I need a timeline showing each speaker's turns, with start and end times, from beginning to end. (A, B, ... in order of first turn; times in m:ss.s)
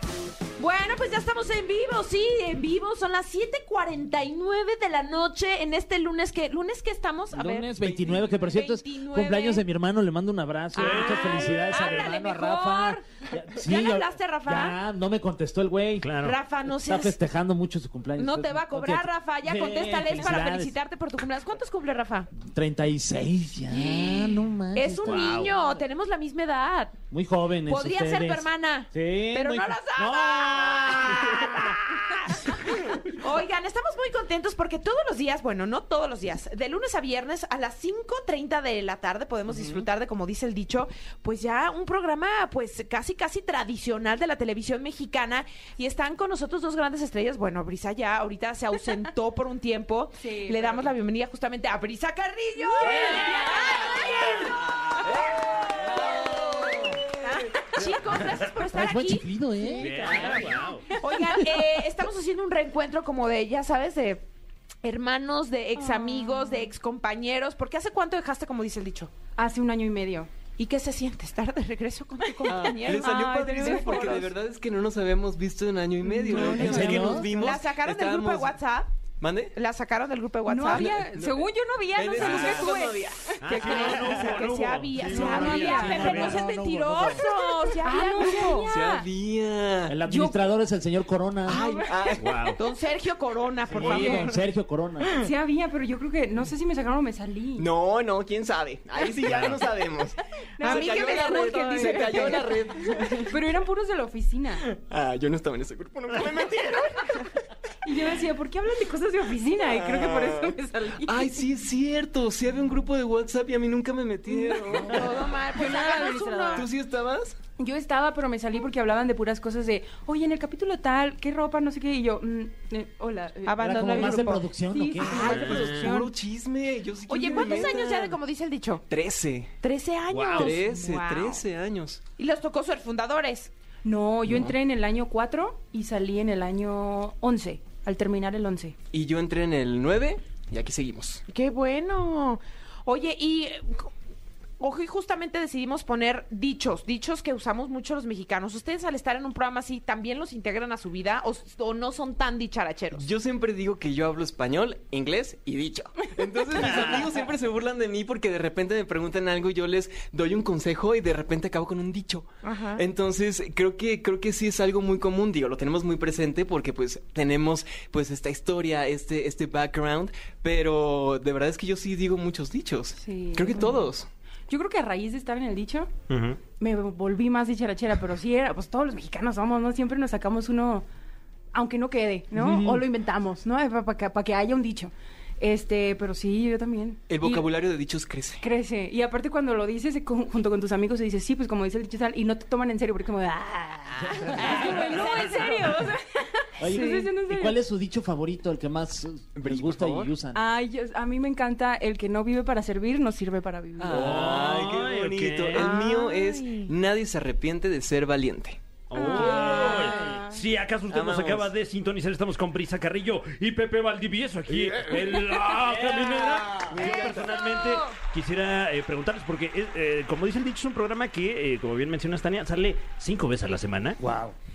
0:00.6-0:09.6 A
0:07.3-0:16.1 B
0:07.9-0:08.2 C
0:10.7-0:13.0 A
0:10.8-0:11.8 D
0:13.6-0:14.8 A
0:16.0-0:16.4 D
0:16.2-0:17.2 A
0:16.8-0:20.8 B
0:18.2-0:22.3 A
0:22.4-0:25.5 B
0:23.7-0:27.0 A
0:25.0-0:25.5 D
0:27.1-0:31.7 B
0:27.7-0:55.1 A
0:50.2-0:50.9 E
0:52.7-0:54.0 E
0:55.8-0:59.3 A
0:55.9-0:56.8 E
0:58.7-1:00.4 B
0:59.6-1:01.4 E
0:59.8-1:00.9 D
1:01.0-1:04.2 A
1:04.8-1:09.1 A
1:05.8-1:06.7 E
1:09.4-1:10.3 E
1:10.6-1:14.2 A
1:12.5-1:14.3 E
1:12.5-1:18.6 C
1:16.0-1:17.2 E
1:16.3-1:17.3 B
1:17.3-1:18.9 A
1:19.2-1:19.6 C
1:19.5-1:21.0 A
1:20.4-1:23.9 E
1:20.7-1:23.3 C
1:22.2-1:22.6 D
1:22.2-1:28.7 A
1:23.4-1:26.4 D
1:24.6-1:27.2 B
1:25.0-1:26.4 E
1:27.1-1:29.1 E
1:28.4-1:30.0 C
1:29.9-1:31.6 B
1:30.0-1:30.4 E
1:31.5-1:32.5 C
1:31.5-1:32.2 E
1:32.2-1:32.6 D
1:32.6-1:34.4 A
1:33.7-1:35.1 B
1:33.8-1:34.2 E
1:35.2-1:37.7 E
1:37.6-1:43.3 C
1:39.2-1:39.6 D
1:40.6-1:44.6 E
1:40.6-1:42.5 A
1:44.6-1:47.3 C
1:47.8-1:51.4 E
1:49.7-1:55.3 C
1:54.3-1:56.7 E
1:54.8-1:56.7 A
1:56.5-1:57.4 C
1:57.6-2:06.1 E
2:03.4-2:04.5 A
2:03.6-2:05.4 B
2:05.0-2:08.2 C
2:05.3-2:05.9 D
2:07.1-2:08.9 A
2:07.3-2:07.6 E
2:08.9-2:09.5 C
2:09.6-2:11.4 A
2:10.1-2:10.6 D
2:10.4-2:12.0 C
2:12.2-2:13.5 A
2:13.8-2:18.8 E
2:18.9-2:21.2 C
2:21.3-2:23.9 A
2:24.6-2:33.0 A
2:32.9-2:54.1 C
2:42.4-2:42.8 A
2:53.0-2:53.9 E
2:54.5-2:55.9 E
2:56.1-2:56.4 D
2:56.6-3:00.9 E
3:01.5-3:07.5 E
3:02.3-3:02.8 B
3:07.1-3:08.4 C
3:08.4-3:17.6 E
3:14.0-3:14.6 B
3:14.4-3:15.6 A
3:16.6-3:20.4 B
3:16.7-3:17.1 A
3:19.3-3:20.1 C
3:20.3-3:24.3 E
3:23.8-3:28.6 C
3:23.9-3:25.7 D
3:25.5-3:26.7 A
3:28.9-3:44.0 D
3:28.9-3:30.4 E
3:30.9-3:31.5 C
3:34.5-3:35.1 C
3:35.6-3:36.9 B
3:36.6-3:37.3 C
3:37.3-3:37.8 E
3:44.0-3:44.4 B